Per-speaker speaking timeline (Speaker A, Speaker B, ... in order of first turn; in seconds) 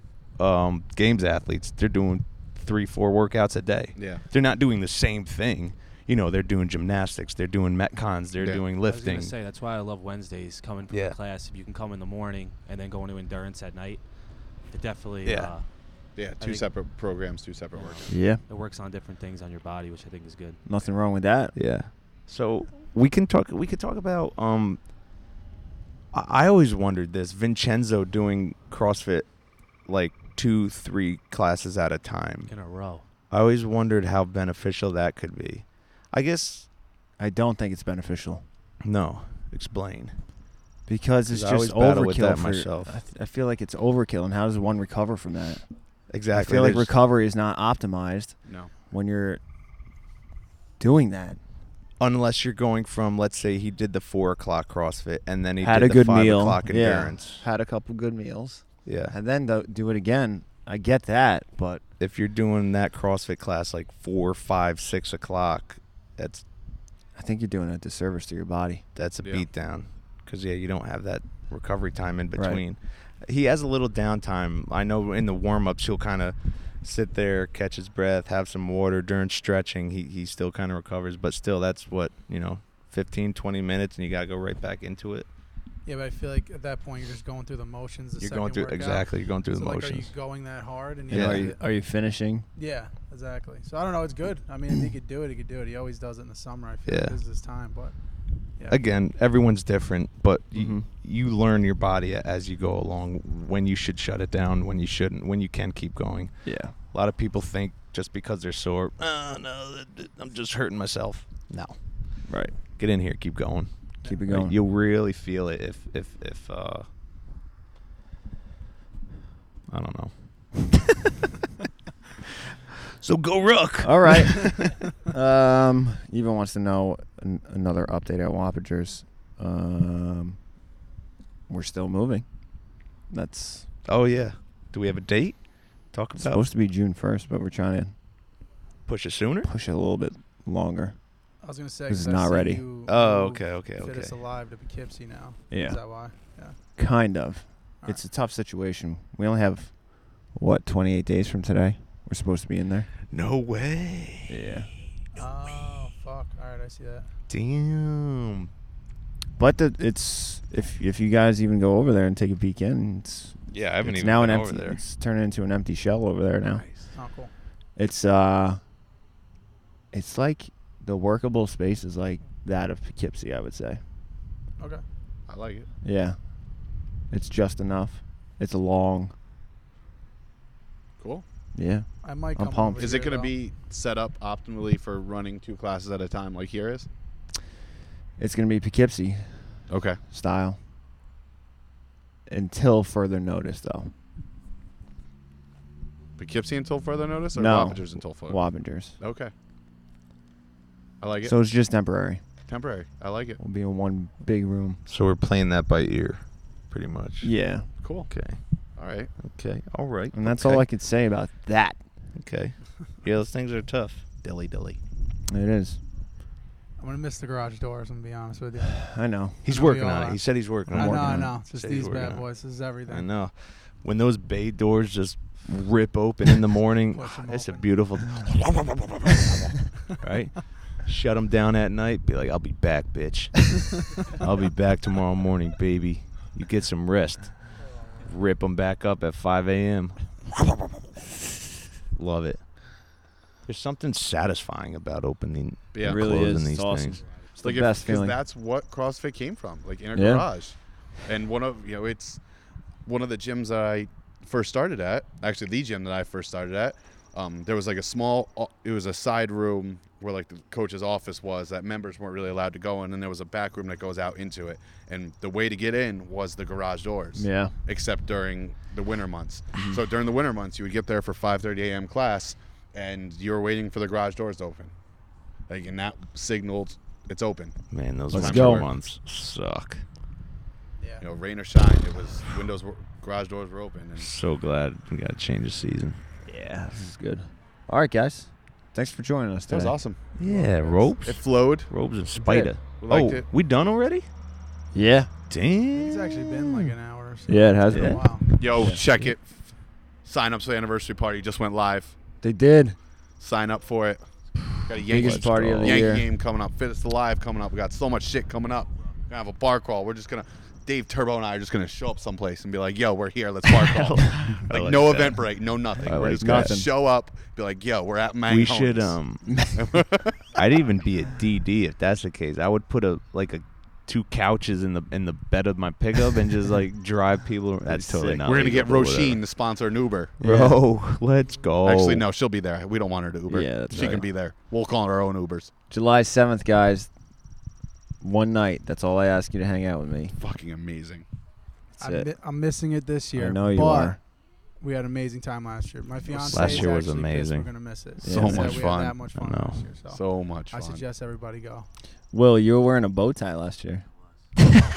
Speaker A: 0.4-9.3, 10.9-11.2, 15.2-15.5, 21.5-24.8, 26.1-29.3, 29.8-32.5, 33.3-36.7, 38.8-40.1, 41.3-43.0, 46.1-46.9, 52.0-57.4, 58.8-59.1, 62.0-66.4, 68.9-85.3, 88.2-90.1, 91.1-91.5, 96.8-97.2, 98.7-113.7, 114.3-116.8, 119.7-120.8, 123.0-124.8, 133.8-136.4, 138.8-139.5, 142.9-144.1, 153.1-154.4, 157.3-158.5, 163.5-164.8, 166.5-166.9, 204.8-207.3, 208.1-208.4, 209.2-210.6, 212.2-214.8, 219.4-240.2, 241.9-242.5, 243.4-247.0, 277.7-279.8, 284.0-286.0, 290.1-294.1, 295.3-296.8, 297.7-298.0, 304.9-305.9, 313.7-315.3, 315.8-316.6, 318.3-319.5, 320.3-329.2, 330.2-332.1, 346.2-347.5, 349.1-349.7
Speaker B: 4.0-4.2, 16.1-18.1, 48.5-48.7, 175.3-175.7, 181.0-181.2, 182.8-186.9, 189.7-190.0, 196.2-198.4, 199.0-199.3, 201.0-201.3, 202.5-203.4, 207.8-208.1, 208.8-209.1, 245.7-246.1, 247.4-252.2, 252.8-274.7, 275.5-277.6, 278.1-278.6, 281.0-284.1, 289.5-291.7, 292.8-293.2, 298.3-299.3, 300.0-302.0, 303.2-304.0, 304.6-319.0, 319.5-320.2, 328.2-330.1, 331.6-335.5, 340.1-341.0, 348.1-349.0, 349.9-350.8
Speaker C: 8.8-16.7, 17.8-20.6, 32.5-33.0
Speaker D: 18.1-18.4, 20.6-21.5, 37.2-38.4, 40.9-45.6, 46.3-48.4, 48.9-49.4, 50.8-51.4, 55.6-61.8, 67.1-68.8, 72.3-72.6, 91.1-92.5, 100.5-100.9, 106.5-106.7, 112.3-112.5, 114.0-114.5, 123.8-130.4, 131.5-132.3, 133.1-133.7, 136.2-137.9, 139.4-141.0, 141.9-142.6, 145.5-152.9, 154.3-154.7, 159.4-166.6, 167.7-168.6, 169.9-173.8, 175.8-179.1, 181.5-182.9, 188.2-190.6, 192.3-193.9, 197.3-199.0, 201.2-202.2, 203.4-204.8, 207.2-207.7, 210.1-211.8, 215.3-215.8, 218.8-219.4, 220.7-221.3, 245.8-248.2, 249.9-250.3, 267.1-267.5, 269.5-269.8, 278.1-278.7, 286.2-289.7, 292.1-292.5, 294.7-295.1, 297.3-298.8, 302.2-302.8, 304.8-306.1, 316.1-316.7, 319.3-319.7, 327.6-328.2, 330.2-330.6, 333.3-334.1, 335.7-336.9, 338.0-340.2, 341.8-342.1, 343.1-344.0, 348.0-348.7, 352.1-353.9
Speaker E: 85.8-91.6, 92.5-98.0, 141.4-146.6, 155.2-157.1, 166.9-167.3, 182.0-183.3, 216.8-218.9, 219.4-223.1, 226.9-227.8, 280.8-281.1, 295.7-298.3, 341.8-351.7